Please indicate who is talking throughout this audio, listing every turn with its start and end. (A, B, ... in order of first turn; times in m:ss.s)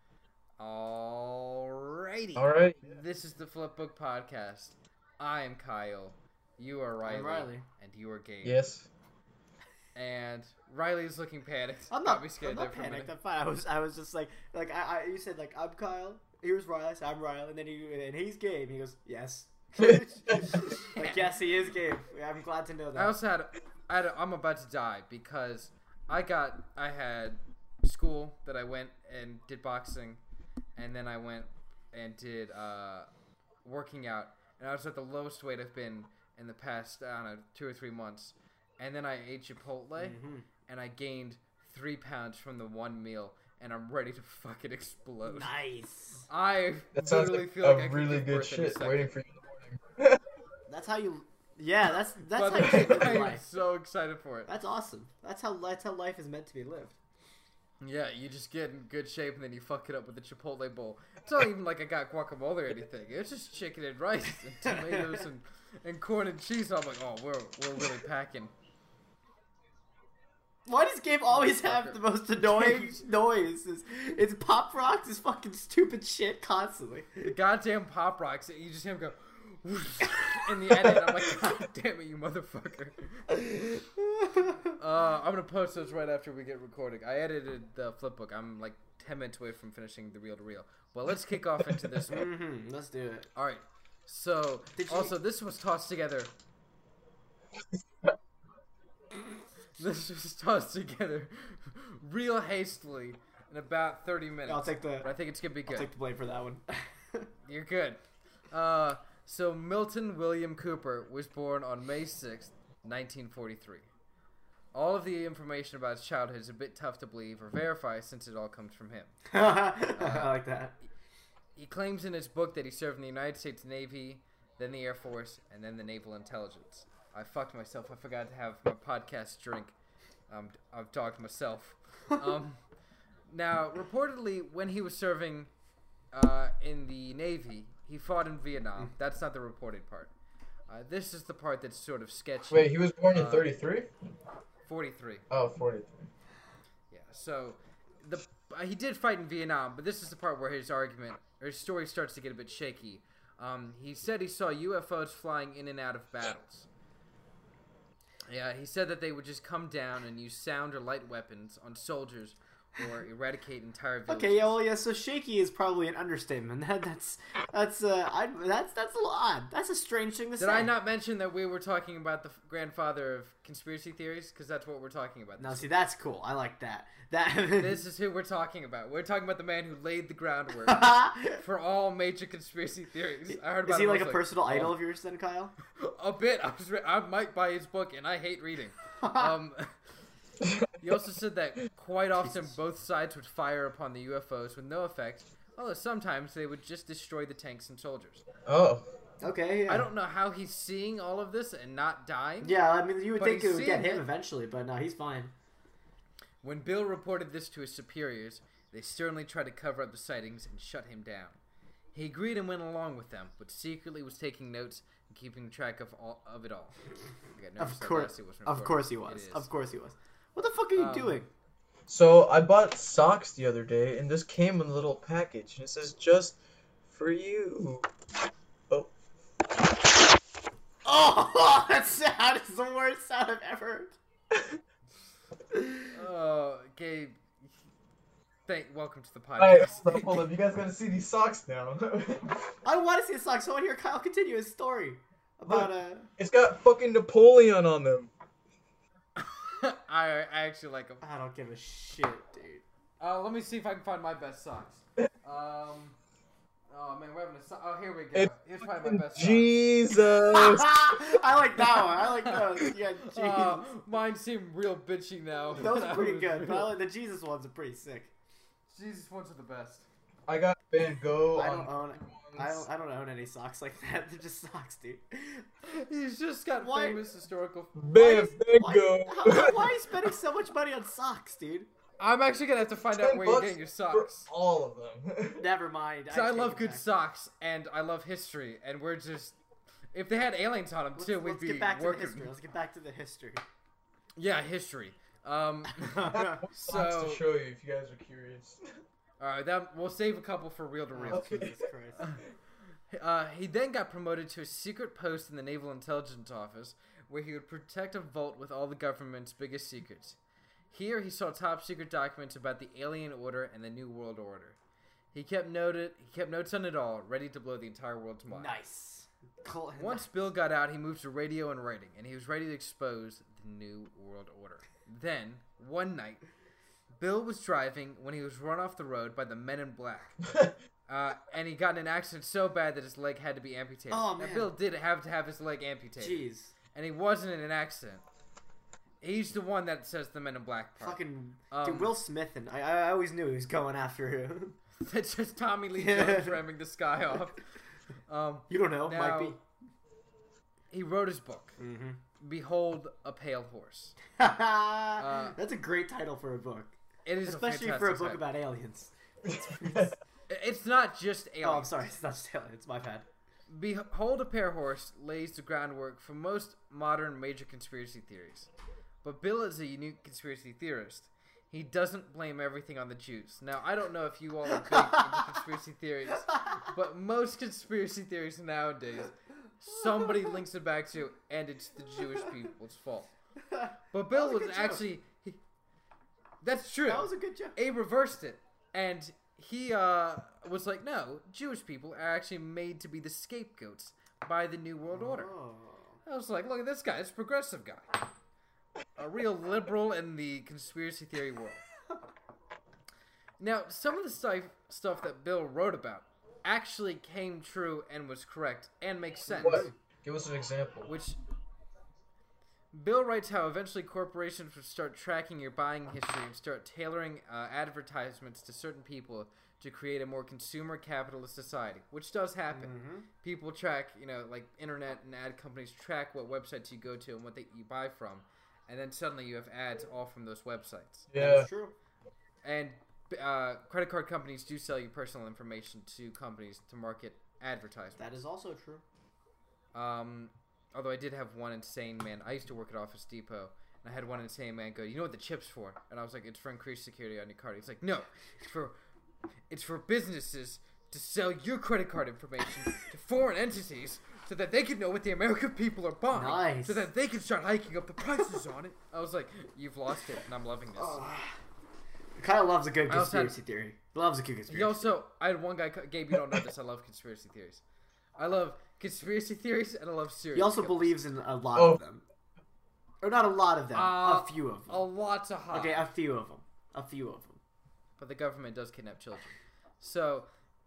0:00.6-0:08.6 A
0:02.4-0:02.9 B
0:07.0-0:07.7 C
0:08.4-0:08.9 B
0:10.0-0:13.1 A
0:11.9-0:23.2 C
0:20.5-0:21.3 A
0:23.0-0:30.2 A
0:30.8-0:33.1 A
0:33.6-0:45.5 A
0:40.0-0:40.5 C
0:45.2-0:46.3 C
0:46.3-0:49.1 A
0:47.0-0:50.2 B
0:50.7-0:53.4 C
0:52.3-0:54.5 A
0:54.5-0:57.0 C
0:57.8-1:08.5 A
1:04.7-1:05.3 C
1:10.7-1:17.3 C
1:11.3-1:13.0 A
1:17.2-1:23.6 A
1:23.4-1:24.7 C
1:24.7-1:32.3 A
1:32.1-1:33.3 C
1:33.4-1:36.3 A
1:34.8-1:35.1 C
1:39.8-1:45.9 A
1:44.5-1:45.2 C
1:45.7-1:47.3 C
1:47.4-1:53.9 A
1:54.7-1:59.2 A
1:59.3-2:00.7 C
2:00.0-2:00.4 A
2:01.6-2:09.7 A
2:10.3-2:12.6 A
2:13.3-2:15.5 A
2:16.1-2:20.1 A
2:20.7-2:23.5 A
2:22.5-2:23.9 B
2:24.7-2:25.2 A
2:25.3-2:26.1 B
2:26.9-2:36.7 A
2:38.3-2:44.6 A
2:44.1-2:50.7 C
2:50.4-2:55.7 A
2:55.4-2:57.8 C
2:57.6-3:04.8 A
3:00.7-3:01.4 C
3:03.3-3:05.5 C
3:05.7-3:09.7 A
3:09.0-3:09.3 C
3:10.4-3:10.7 B
3:10.8-3:18.2 A
3:12.2-3:12.5 C
3:18.5-3:18.9 B
3:19.2-3:19.9 C
3:19.7-3:22.6 A
3:22.4-3:25.3 C
3:23.2-3:24.1 A
3:26.4-3:31.4 A
3:31.9-3:36.8 A
3:37.4-3:39.5 A
3:37.6-3:41.3 C
3:40.8-3:41.2 A
3:41.9-3:47.9 B
3:50.8-3:54.0 C
3:55.5-3:55.9 C
3:55.9-3:57.3 A
3:58.5-4:00.2 A
3:59.4-4:02.6 B
4:02.6-4:06.1 C
4:05.5-4:08.1 B
4:09.2-4:11.0 A
4:11.0-4:12.6 C
4:13.0-4:16.0 A
4:16.7-4:19.5 A
4:18.1-4:20.9 B
4:20.0-4:23.6 C
4:23.0-4:26.7 A
4:25.6-4:28.1 C
4:28.7-4:29.9 A
4:30.3-4:32.6 B
4:31.3-4:35.5 C
4:35.6-4:37.7 A
4:36.6-4:37.0 C
4:37.8-4:40.1 B
4:37.9-4:41.7 C
4:42.0-4:44.3 A
4:42.9-4:45.5 B
4:45.4-4:46.8 C
4:46.1-4:49.4 A
4:49.9-4:52.3 A
4:51.0-4:53.4 C
4:54.2-4:57.2 A
4:55.8-4:56.4 C
4:56.1-4:58.8 B
4:59.2-5:02.2 A
5:00.9-5:02.0 C
5:01.1-5:01.5 B
5:02.9-5:10.2 A
5:10.7-5:14.6 A
5:15.1-5:18.5 A
5:18.3-5:20.1 C
5:19.8-5:26.2 A
5:27.0-5:30.2 A
5:30.9-5:38.0 A
5:33.9-5:34.5 C
5:36.0-5:36.5 C
5:39.0-5:41.0 A
5:40.8-5:44.6 C
5:41.5-5:41.9 A
5:44.8-5:47.4 A
5:45.8-5:46.4 C
5:48.1-5:49.4 A
5:48.5-5:49.4 C
5:50.7-5:51.6 A
5:51.6-5:52.0 C
5:52.2-5:54.0 A
5:54.2-5:59.9 C
5:55.0-5:55.4 A
5:57.0-5:58.2 A
5:59.3-6:00.0 B
6:00.3-6:01.7 A
6:01.4-6:03.1 C
6:03.5-6:08.5 A
6:09.0-6:23.1 A
6:23.5-6:24.8 C
6:23.9-6:25.4 A
6:26.4-6:35.3 A
6:26.9-6:27.6 C
6:34.9-6:36.0 C
6:36.1-6:38.0 A
6:39.0-6:41.6 A
6:43.4-6:49.7 A
6:49.4-6:49.7 C
6:49.4-6:50.9 B
6:50.9-6:51.2 A
6:52.7-7:11.1 A
7:02.5-7:03.1 C
7:11.1-7:11.5 B
7:11.2-7:11.8 C
7:12.4-7:18.0 A
7:18.0-7:18.8 C
7:19.8-7:28.8 A
7:29.5-7:41.0 A
7:36.1-7:36.9 C
7:40.8-7:41.4 C
7:42.2-7:44.8 C
7:42.9-7:43.4 A
7:44.5-7:47.6 A
7:48.2-7:51.0 A
7:50.4-7:52.0 C
7:51.6-7:51.8 B
7:53.0-7:54.9 C
7:53.7-7:55.9 A
7:55.5-7:57.4 C
7:58.0-8:00.3 A